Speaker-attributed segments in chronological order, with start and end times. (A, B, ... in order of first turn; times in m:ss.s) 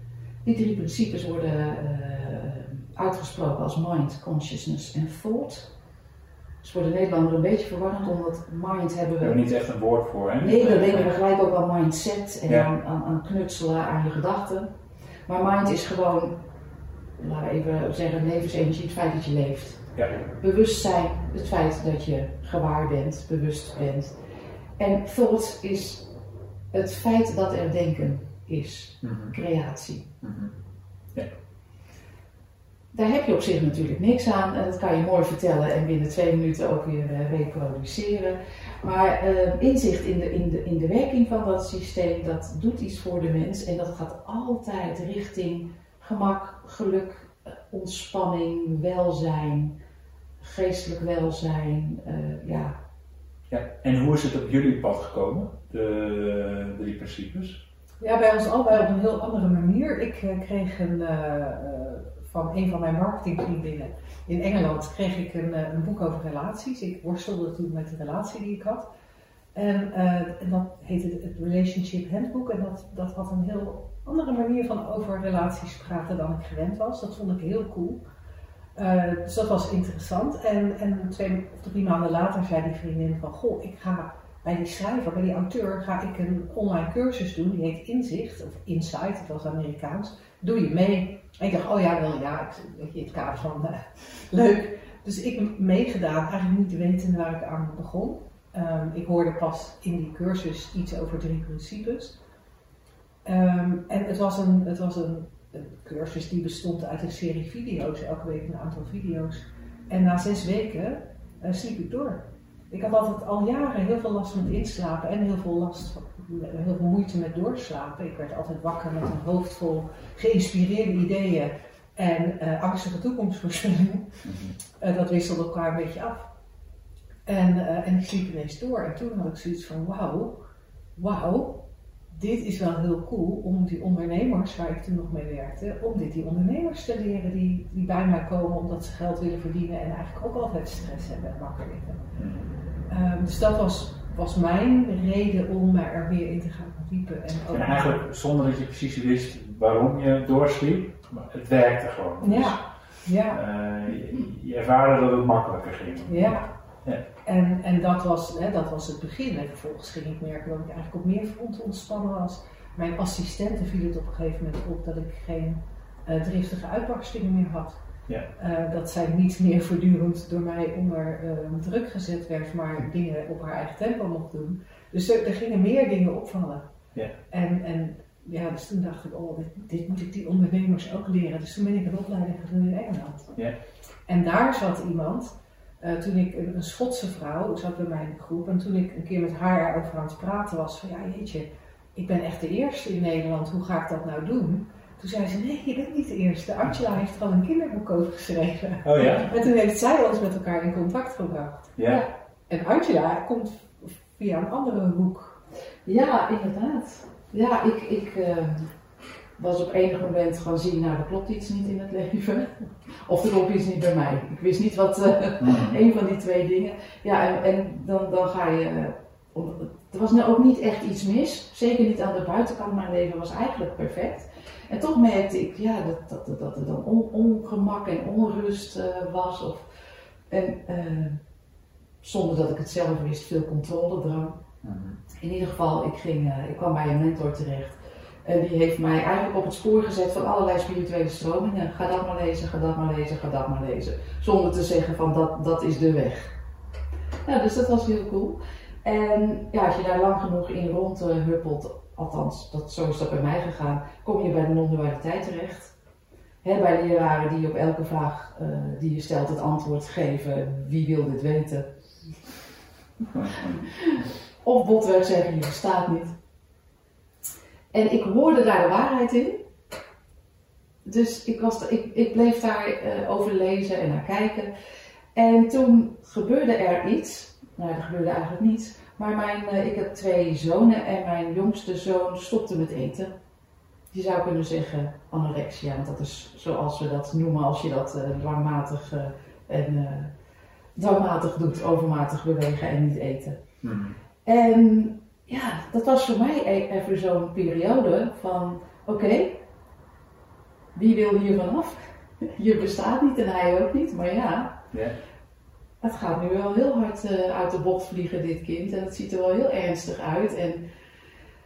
0:00.4-0:05.7 A
0:06.6-0:09.4 A
0:09.2-0:11.1 B
0:10.4-0:14.7 A
0:15.3-0:16.4 A
0:17.2-0:19.8 A
0:20.4-0:24.2 A
0:24.8-0:26.1 A
0:26.7-0:30.1 A
0:29.0-0:29.4 B
0:30.2-0:30.5 B
0:32.9-0:49.8 A
0:50.4-0:52.8 A
0:53.5-0:57.6 B
0:58.0-1:08.9 C
1:09.6-1:18.0 C
1:18.8-1:42.2 C
1:43.2-2:04.2 C
2:04.2-2:04.6 B
2:04.8-2:06.3 C
2:07.3-2:22.0 C
2:22.2-2:22.5 B
2:22.9-2:28.0 C
2:27.5-2:32.6 B
2:32.2-2:33.4 C
2:33.3-2:37.0 B
2:36.1-2:36.5 C
2:37.2-2:47.8 C
2:48.4-2:56.7 C
2:57.3-3:03.3 C
3:04.1-3:21.7 C
3:18.8-3:19.3 B
3:21.8-3:22.0 B
3:22.5-3:25.4 C
3:25.8-3:28.7 A
3:29.4-3:49.6 A
3:35.4-3:35.8 B
3:50.3-3:51.2 A
3:52.0-3:54.4 A
3:54.6-3:55.0 B
3:55.2-4:06.3 A
4:07.2-4:15.7 A
4:16.4-4:21.7 A
4:23.1-4:23.6 B
4:23.2-4:26.2 A
4:27.7-4:29.4 A
4:30.8-4:34.5 A
4:35.1-4:43.1 A
4:43.9-4:50.1 A
4:50.8-4:53.4 A
4:53.6-4:54.0 B
4:54.2-4:59.4 A
5:00.8-5:04.6 A
5:05.8-5:10.6 A